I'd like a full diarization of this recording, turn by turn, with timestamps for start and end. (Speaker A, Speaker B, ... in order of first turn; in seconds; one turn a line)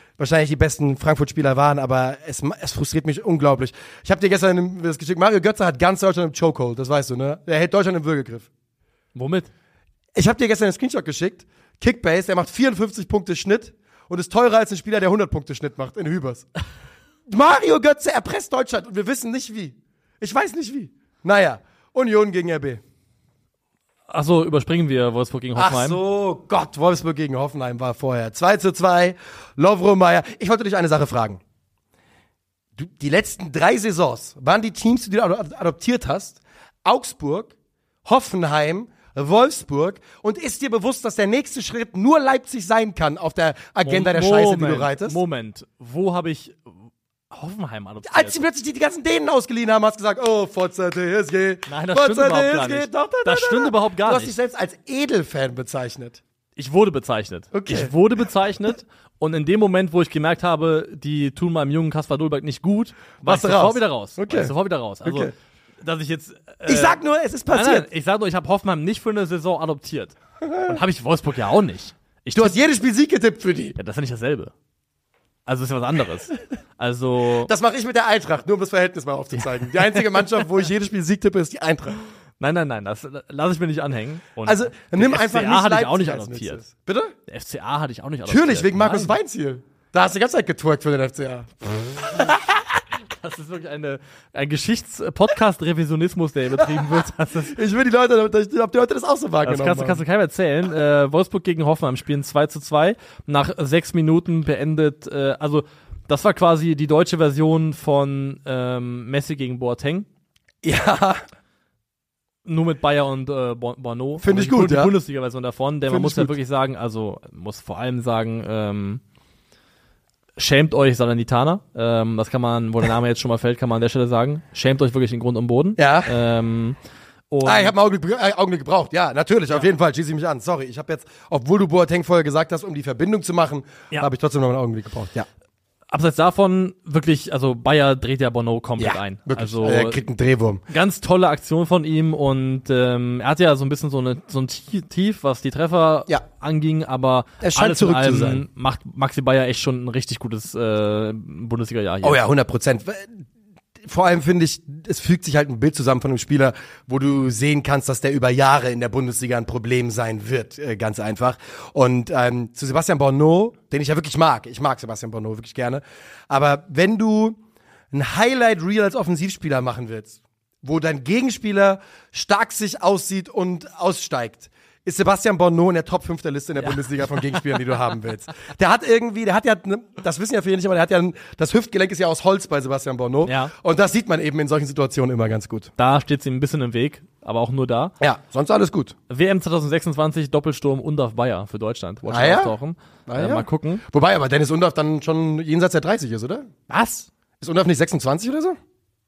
Speaker A: 0.2-8.5
Speaker B: 9.2-9.5
Speaker A: 10.2-16.5
Speaker A: 17.3-22.8
Speaker B: 24.1-26.0
Speaker A: 25.6-31.4
Speaker A: 32.8-37.5
Speaker A: 38.0-45.2
Speaker B: 43.8-48.4
Speaker A: 48.0-56.2
Speaker B: 51.7-54.4
Speaker B: 56.6-72.6
Speaker A: 57.5-57.9
Speaker A: 63.2-64.5
Speaker A: 65.0-65.3
Speaker A: 66.7-67.9
Speaker A: 70.4-70.8
Speaker A: 72.4-73.8
Speaker B: 73.8-74.5
Speaker B: 75.5-77.5
Speaker A: 77.5-82.0
Speaker B: 82.4-86.6
Speaker A: 84.5-87.1
Speaker B: 87.3-89.2
Speaker A: 88.3-92.8
Speaker B: 93.1-97.6
Speaker A: 96.7-100.0
Speaker B: 99.5-110.1
Speaker A: 110.6-111.2
Speaker B: 112.5-119.0
Speaker A: 114.2-115.0
Speaker A: 115.9-116.3
Speaker B: 120.4-126.8
Speaker A: 125.8-126.2
Speaker B: 127.3-127.7
Speaker A: 127.5-135.3
Speaker B: 135.9-140.0
Speaker A: 138.8-140.6
Speaker B: 140.7-152.2
Speaker A: 147.4-148.4
Speaker A: 152.0-153.2
Speaker A: 153.8-167.4
Speaker A: 167.9-185.7
Speaker B: 176.6-177.4
Speaker B: 183.3-183.5
Speaker B: 185.8-187.9
Speaker A: 188.0-188.9
Speaker B: 189.1-193.8
Speaker A: 192.1-192.6
Speaker A: 193.1-196.5
Speaker B: 196.7-197.1
Speaker A: 197.4-198.6